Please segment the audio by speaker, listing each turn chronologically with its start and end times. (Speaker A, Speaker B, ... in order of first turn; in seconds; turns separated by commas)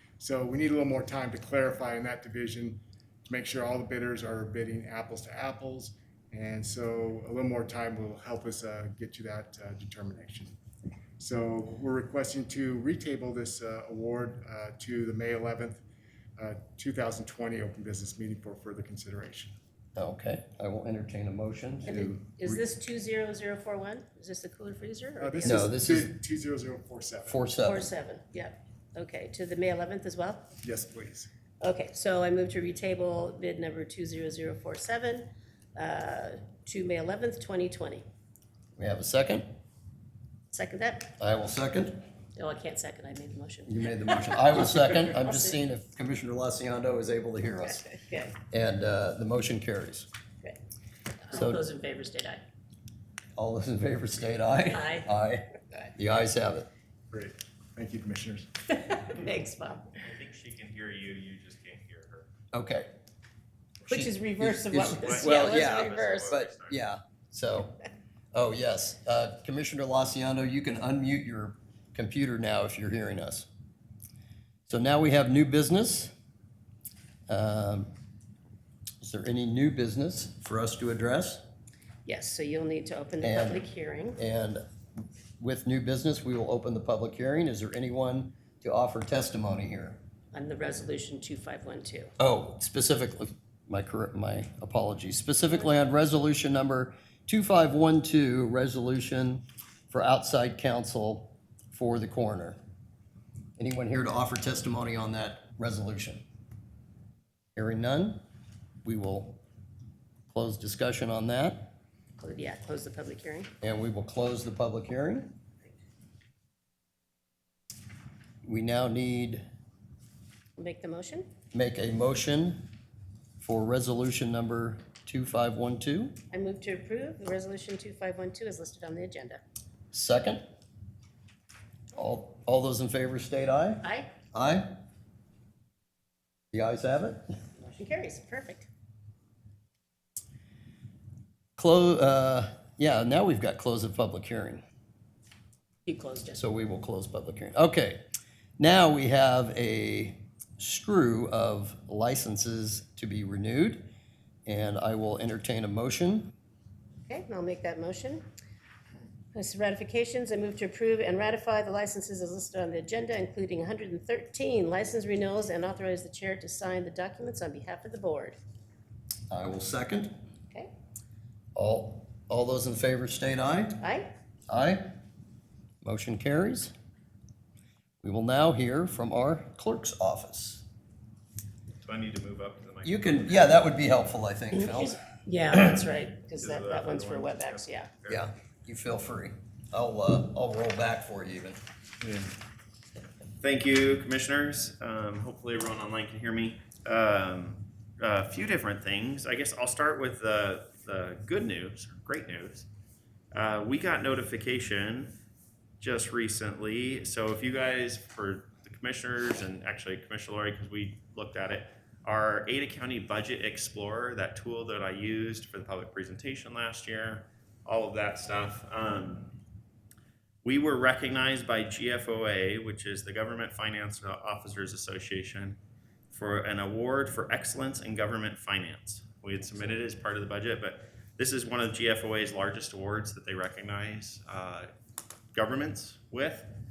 Speaker A: 0.2-10.6, Speaker A: 11.2-15.8, Speaker A: 16.4-19.5, Speaker B: 19.9-22.1, Speaker C: 21.9-25.7, Speaker A: 21.9-22.5, Speaker A: 25.2-27.4, Speaker B: 25.4-26.1, Speaker B: 27.3-27.9, Speaker C: 27.6-30.5, Speaker A: 30.6-31.3, Speaker C: 31.6-38.0, Speaker B: 38.8-39.4, Speaker C: 40.5-41.1, Speaker B: 41.2-42.0, Speaker C: 42.4-45.5, Speaker B: 43.7-47.9, Speaker C: 47.7-48.4, Speaker B: 48.5-50.1, Speaker C: 51.2-52.4, Speaker B: 51.3-51.6, Speaker B: 53.4-56.7, Speaker C: 54.7-55.1, Speaker A: 57.1-58.5, Speaker C: 58.7-60.0, Speaker D: 60.0-62.3, Speaker B: 62.5-62.9, Speaker C: 63.8-66.3, Speaker B: 63.9-67.8, Speaker D: 64.7-66.8, Speaker B: 68.3-73.5, Speaker B: 74.7-76.1, Speaker B: 77.3-77.9, Speaker B: 79.0-81.4, Speaker C: 82.0-84.2, Speaker B: 83.2-83.6, Speaker B: 84.2-84.6, Speaker B: 85.4-90.0, Speaker C: 90.3-92.1, Speaker B: 92.2-102.6, Speaker B: 103.6-106.2, Speaker B: 107.5-108.2, Speaker B: 108.8-109.4, Speaker B: 110.3-111.7, Speaker C: 112.2-113.5, Speaker B: 113.6-115.3, Speaker B: 118.4-119.4, Speaker C: 120.6-121.3, Speaker B: 121.5-122.7, Speaker B: 123.4-126.1, Speaker C: 126.3-129.4, Speaker B: 129.9-130.4, Speaker B: 131.9-134.7, Speaker C: 133.8-134.1, Speaker B: 136.5-137.2, Speaker C: 137.6-138.7, Speaker B: 141.6-144.6, Speaker C: 145.8-146.4, Speaker B: 146.3-148.0, Speaker B: 148.6-153.8, Speaker B: 154.4-156.3, Speaker C: 157.1-158.2, Speaker C: 159.3-168.3, Speaker B: 169.3-170.1, Speaker B: 171.5-173.8, Speaker C: 173.8-174.1, Speaker B: 174.5-174.9, Speaker B: 175.8-176.7, Speaker B: 178.0-180.6, Speaker D: 181.8-183.6, Speaker B: 182.8-185.0, Speaker C: 184.5-187.9, Speaker D: 186.3-188.3, Speaker B: 188.1-191.6, Speaker D: 192.0-192.3, Speaker D: 193.4-202.7, Speaker D: 203.3-205.1, Speaker D: 205.8-219.4, Speaker D: 220.4-225.6, Speaker D: 226.1-234.7, Speaker D: 235.3-236.6